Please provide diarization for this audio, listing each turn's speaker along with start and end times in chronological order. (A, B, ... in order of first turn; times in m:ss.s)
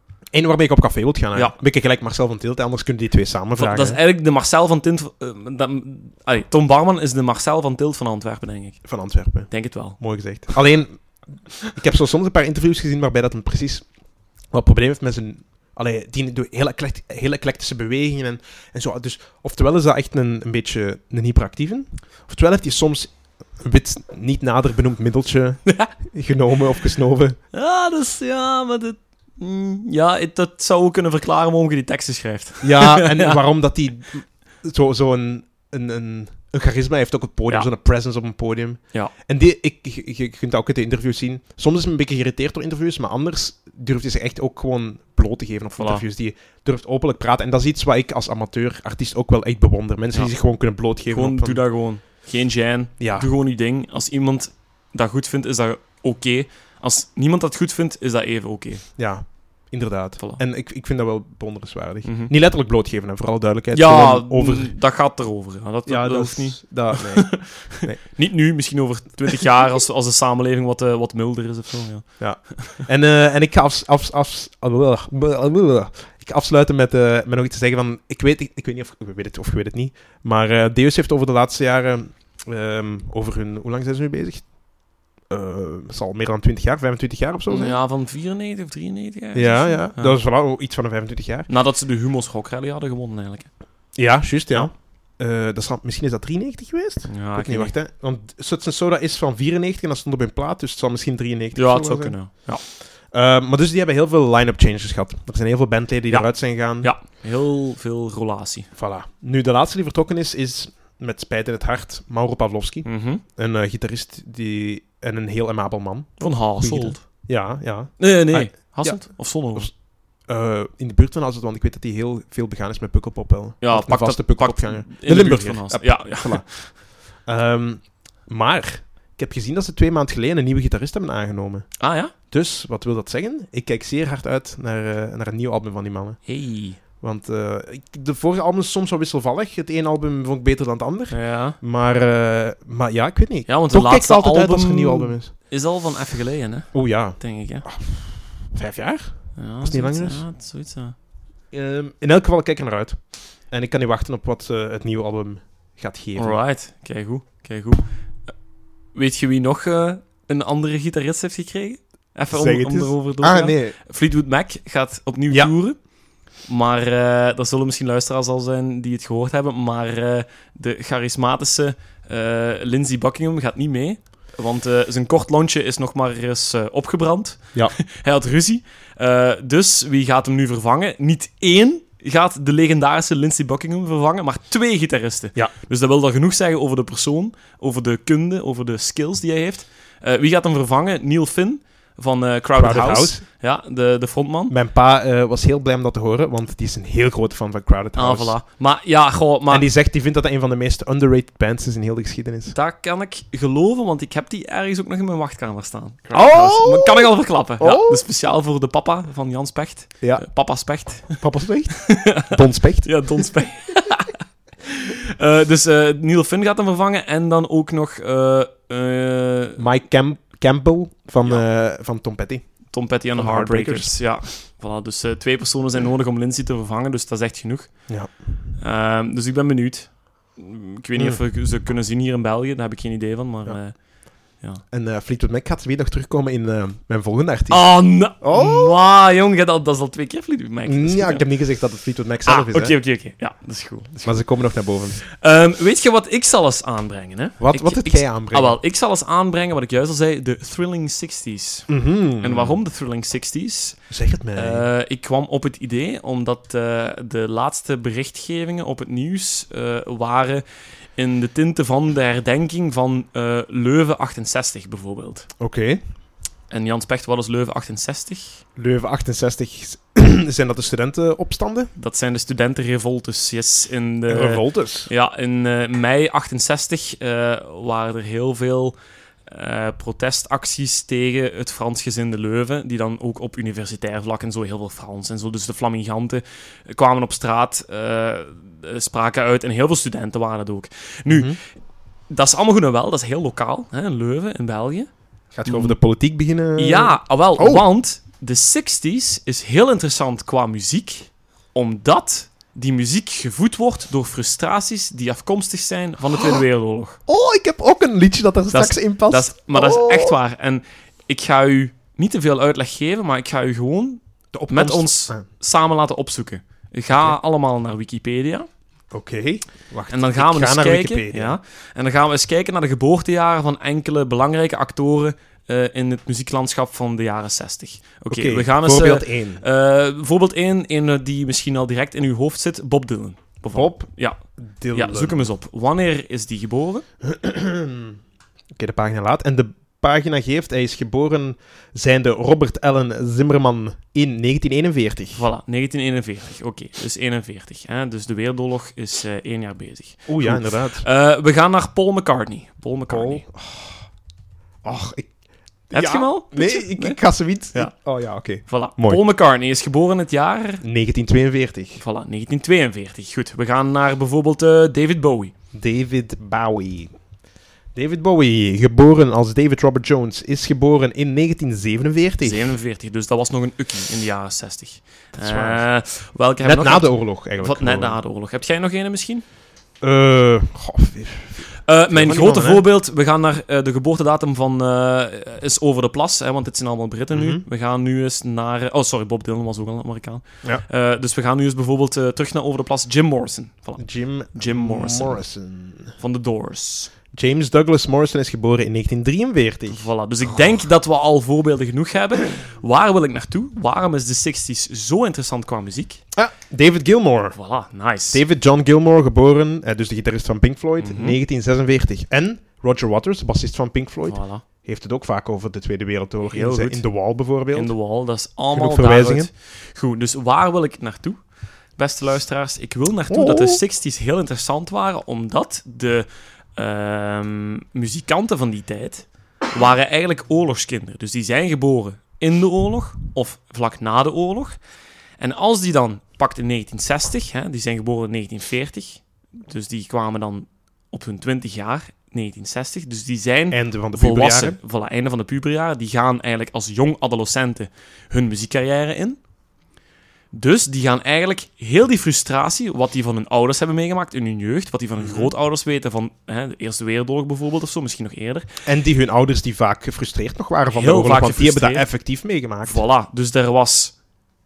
0:00.3-0:04.0 A
0:03.6-0:08.9 B
0:08.8-0:13.9 A
0:09.5-0:10.0 B
0:14.5-0:27.4 A
0:27.5-0:33.4 B
0:32.6-0:51.6 A
0:45.8-0:46.0 B
0:51.1-0:58.9 B
0:53.0-0:53.3 A
0:59.0-1:04.8 A
1:02.0-1:02.3 B
1:03.7-1:12.8 B
1:05.9-1:08.0 A
1:12.2-1:24.6 A
1:25.3-1:27.8 A
1:27.5-1:30.2 B
1:29.3-1:31.5 A
1:31.5-1:33.5 B
1:34.0-1:42.4 A
1:37.1-1:37.7 B
1:41.5-1:42.6 B
1:43.0-1:46.9 A
1:46.1-1:48.7 B
1:48.8-2:16.2 A
1:52.8-1:53.2 B
1:56.2-1:57.0 B
1:58.0-1:59.7 B
2:03.6-2:06.7 B
2:11.8-2:12.1 B
2:16.2-2:16.8 B
2:16.8-2:25.3 A
2:21.1-2:21.6 B
2:23.5-2:27.6 B
2:26.7-2:30.2 A
2:29.4-2:30.9 B
2:31.5-2:36.4 A
2:36.2-2:37.8 B
2:38.9-2:45.8 B
2:42.3-2:43.8 A
2:46.4-3:14.5 B
3:12.5-3:13.2 A
3:14.5-3:18.4 A
3:18.0-3:19.7 B
3:19.5-3:22.6 A
3:22.5-3:31.3 B
3:26.1-3:28.0 A
3:30.0-3:30.4 A
3:31.0-3:33.3 A
3:31.9-3:39.6 B
3:39.6-3:42.5 A
3:42.7-3:47.9 B
3:43.2-3:44.0 A
3:47.9-3:48.5 A
3:48.6-3:54.6 B
3:51.0-3:51.2 A
3:54.7-3:58.8 A
3:57.5-4:01.3 B
4:00.6-4:02.8 A
4:02.2-4:04.2 B
4:04.0-4:05.0 A
4:05.0-4:11.7 B
4:07.4-4:08.6 A
4:11.7-4:12.6 A
4:12.2-4:13.8 B
4:13.9-4:14.7 A
4:14.3-4:20.4 B
4:21.0-4:25.3 B
4:25.4-4:25.8 A
4:26.5-4:28.4 B
4:28.6-4:31.7 A
4:31.8-4:51.4 B
4:34.1-4:34.9 A
4:51.1-4:51.4 A
4:52.1-4:54.9 B
4:55.3-4:57.6 A
4:55.4-4:55.8 B
4:56.6-5:07.0 B
5:06.2-5:06.4 A
5:07.1-5:10.2 A
5:08.5-5:18.5 B
5:14.3-5:15.2 A
5:16.9-5:17.1 A
5:18.9-5:21.4 A
5:19.9-5:34.2 B
5:28.1-5:29.4 A
5:33.5-5:33.9 A
5:34.4-5:35.3 A
5:34.7-5:36.8 B
5:37.0-5:38.0 A
5:38.6-5:45.3 A
5:45.1-5:53.2 B
5:50.1-5:50.8 A
5:52.9-5:53.8 A
5:54.6-5:55.1 A
5:55.7-5:59.0 A
5:55.7-5:57.0 B
5:58.5-6:00.6 B
6:00.6-6:01.8 A
6:01.8-6:05.3 B
6:05.5-6:06.9 A
6:07.7-6:12.5 A
6:12.2-6:19.2 B
6:15.2-6:15.6 A
6:16.4-6:18.0 A
6:19.8-6:22.6 A
6:21.6-6:33.8 B
6:27.1-6:27.4 A
6:33.8-6:36.0 A
6:34.3-6:35.2 B
6:36.0-6:36.9 B
6:37.1-6:39.8 A
6:39.7-6:46.0 B
6:46.1-6:47.4 A
6:47.3-6:48.2 B
6:48.1-6:57.7 A
6:50.8-6:51.2 B
6:54.0-6:54.4 B
6:56.2-6:56.8 B
6:57.5-7:01.2 B
6:58.5-6:59.3 A
7:01.8-7:14.6 B
7:03.1-7:03.6 A
7:15.2-7:29.2 B
7:23.5-7:24.6 A
7:30.3-7:38.4 B
7:35.0-7:35.3 A
7:38.6-7:42.8 A
7:40.7-7:41.9 B
7:42.6-7:44.0 B